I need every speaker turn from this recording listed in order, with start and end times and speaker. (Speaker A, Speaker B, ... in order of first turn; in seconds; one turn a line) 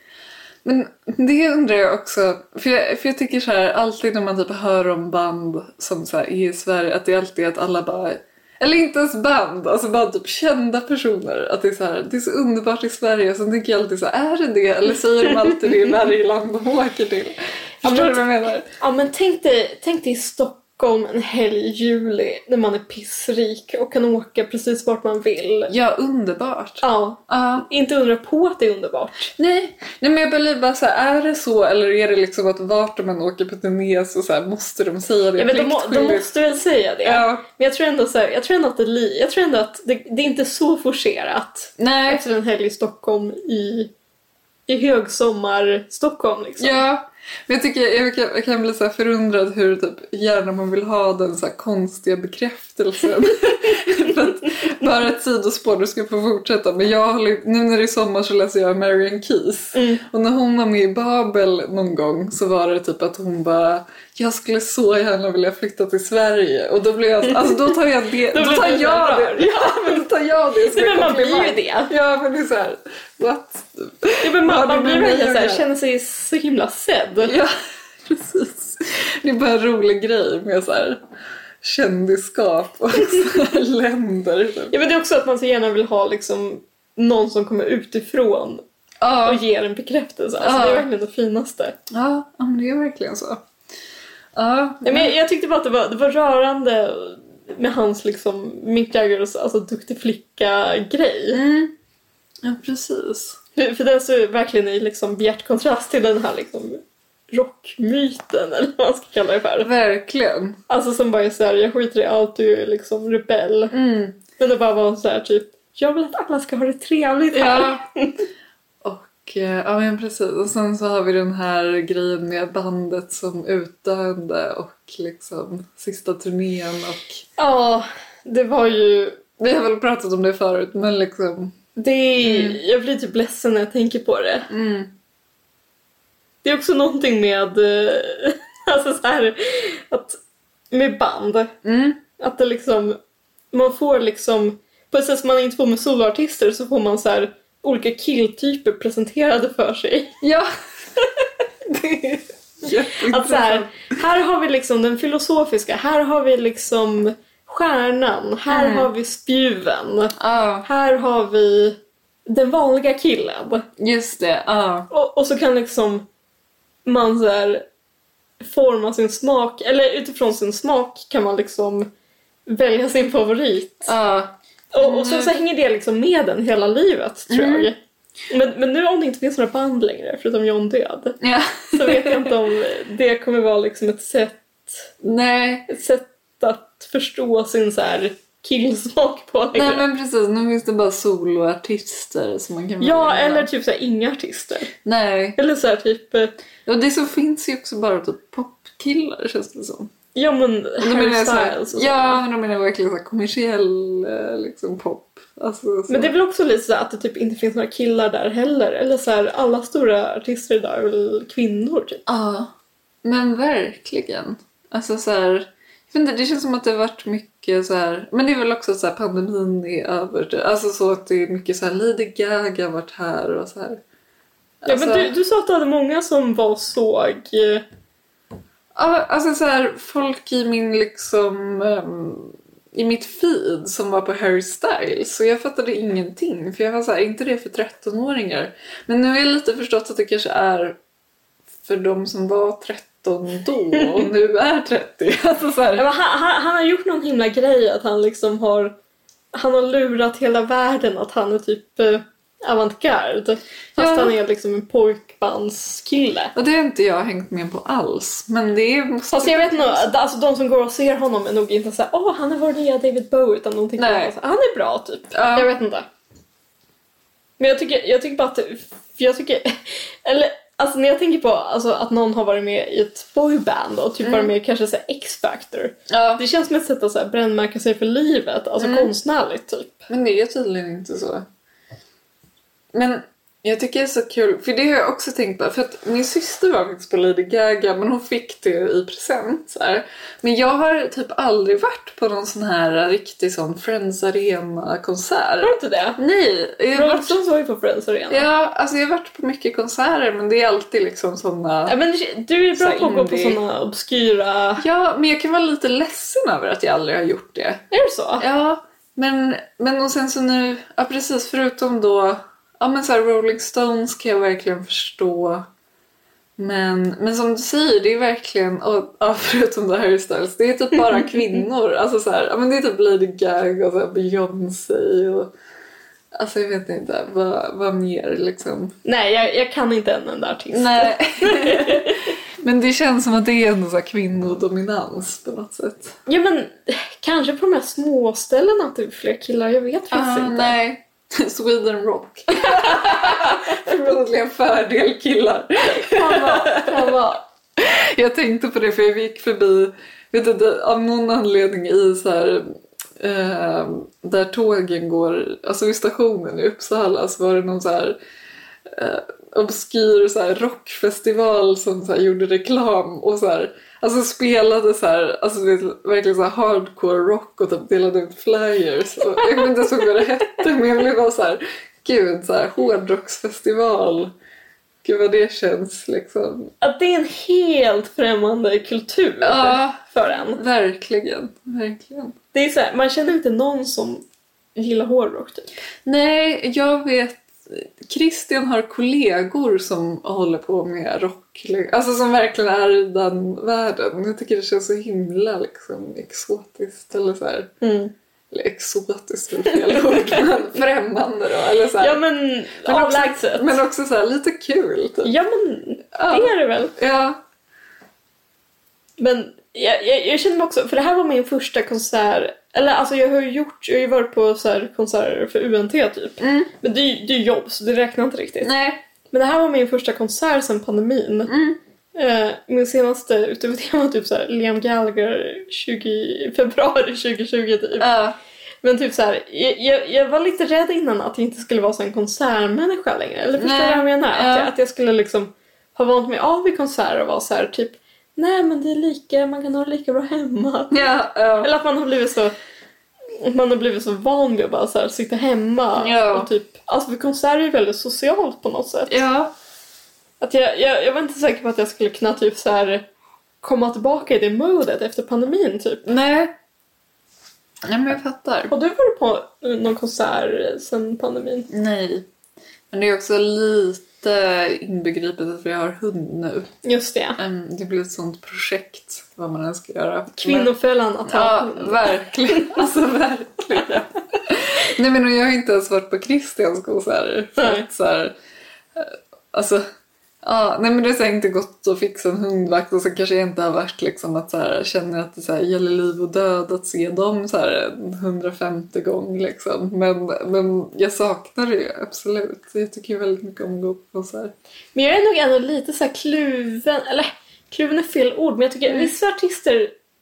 Speaker A: 0.7-18.6
Speaker B: 17.8-25.7
Speaker A: 25.7-27.7
Speaker B: 26.8-29.3
Speaker A: 29.4-36.3
Speaker B: 35.4-43.9
Speaker A: 37.0-37.4
Speaker A: 41.8-42.2
Speaker B: 44.7-46.8
Speaker A: 46.6-75.7
Speaker B: 59.7-60.0
Speaker B: 67.2-67.7
Speaker B: 68.3-70.1
Speaker B: 70.7-71.9
Speaker B: 74.2-77.3
Speaker A: 77.2-77.5
Speaker A: 78.0-81.0
Speaker A: 81.6-84.7
Speaker B: 84.7-88.6
Speaker A: 89.0-89.4
Speaker B: 89.2-91.8
Speaker A: 90.4-90.9
Speaker A: 91.9-93.4
Speaker A: 94.3-95.1
Speaker B: 94.8-101.4
Speaker A: 101.3-101.7
Speaker A: 102.4-103.4
Speaker B: 103.6-109.7
Speaker A: 109.6-110.6
Speaker B: 110.7-113.7
Speaker A: 113.7-114.2
Speaker B: 114.4-118.2
Speaker A: 117.3-117.8
Speaker A: 118.8-127.2
Speaker B: 127.4-129.2
Speaker A: 129.4-131.6
Speaker B: 131.8-134.5
Speaker A: 132.2-132.6
Speaker A: 134.5-134.9
Speaker B: 136.4-140.2
Speaker B: 140.7-141.5
Speaker A: 141.6-142.0
Speaker B: 142.2-143.0
Speaker B: 143.5-150.2
Speaker A: 150.2-150.5
Speaker A: 151.7-153.8
Speaker B: 153.0-163.7
Speaker A: 158.5-158.9
Speaker A: 160.2-160.7
Speaker A: 163.8-164.9
Speaker B: 164.9-166.1
Speaker B: 166.8-167.7
Speaker B: 168.4-171.9
Speaker B: 172.5-173.9
Speaker A: 173.8-175.3
Speaker B: 174.7-177.8
Speaker A: 177.3-177.7
Speaker B: 178.3-181.2
Speaker A: 181.2-182.3
Speaker B: 181.7-184.9
Speaker A: 185.0-185.7
Speaker B: 185.7-189.8
Speaker A: 189.5-193.5
Speaker B: 192.8-194.7
Speaker A: 194.8-195.4
Speaker B: 195.4-196.3
Speaker A: 196.7-199.9
Speaker B: 200.2-202.2
Speaker A: 200.8-206.1
Speaker B: 205.9-212.1
Speaker A: 212.1-212.5
Speaker A: 213.0-223.8
Speaker A: 224.6-225.2
Speaker B: 224.7-227.6
Speaker A: 228.8-240.8
Speaker A: 241.6-245.9
Speaker B: 245.8-248.8
Speaker B: 249.3-256.3
Speaker A: 253.8-254.1
Speaker A: 256.4-259.9
Speaker B: 259.1-265.9
Speaker A: 263.8-264.1
Speaker A: 265.1-265.5
Speaker B: 267.4-279.9
Speaker A: 274.0-274.3
Speaker A: 275.9-276.2
Speaker A: 278.6-278.9
Speaker A: 279.9-281.2
Speaker A: 282.7-297.2
Speaker B: 295.4-296.0
Speaker B: 296.7-298.2
Speaker A: 298.1-301.8
Speaker B: 301.7-304.6
Speaker A: 302.6-303.4
Speaker A: 304.6-307.6
Speaker B: 307.7-308.2
Speaker A: 308.2-315.5
Speaker A: 316.4-325.3
Speaker A: 326.1-328.8
Speaker B: 328.9-332.1
Speaker A: 330.5-336.0
Speaker B: 336.1-340.6
Speaker A: 339.9-346.9
Speaker B: 342.4-343.2
Speaker B: 345.7-347.2
Speaker A: 347.6-358.0
Speaker A: 358.7-374.1
Speaker A: 374.8-376.5
Speaker B: 376.6-380.4
Speaker A: 379.2-379.8
Speaker A: 380.4-382.1
Speaker B: 382.3-385.5
Speaker A: 385.9-397.5
Speaker B: 397.6-397.9
Speaker A: 398.3-402.0
Speaker B: 399.6-400.3
Speaker B: 401.8-403.6
Speaker A: 402.6-405.1
Speaker B: 405.0-406.8
Speaker A: 405.9-407.2
Speaker B: 409.0-418.5
Speaker A: 416.2-416.5
Speaker A: 418.4-418.9
Speaker B: 419.1-421.3
Speaker A: 421.3-421.6
Speaker B: 421.9-427.9
Speaker A: 427.8-428.2
Speaker B: 428.6-440.8
Speaker A: 433.4-434.5
Speaker A: 440.7-441.5
Speaker B: 441.4-442.3
Speaker B: 443.2-449.0
Speaker A: 445.8-446.3
Speaker A: 448.9-449.3
Speaker B: 450.2-452.9
Speaker B: 453.4-455.9
Speaker A: 455.9-456.4
Speaker A: 457.6-458.5
Speaker B: 458.5-461.5
Speaker A: 461.5-462.1
Speaker A: 462.7-466.5
Speaker B: 466.6-467.2
Speaker A: 467.2-470.5
Speaker B: 470.2-472.6
Speaker A: 471.1-478.1
Speaker B: 477.4-477.7
Speaker A: 478.8-479.6
Speaker A: 480.2-494.3
Speaker B: 494.8-499.7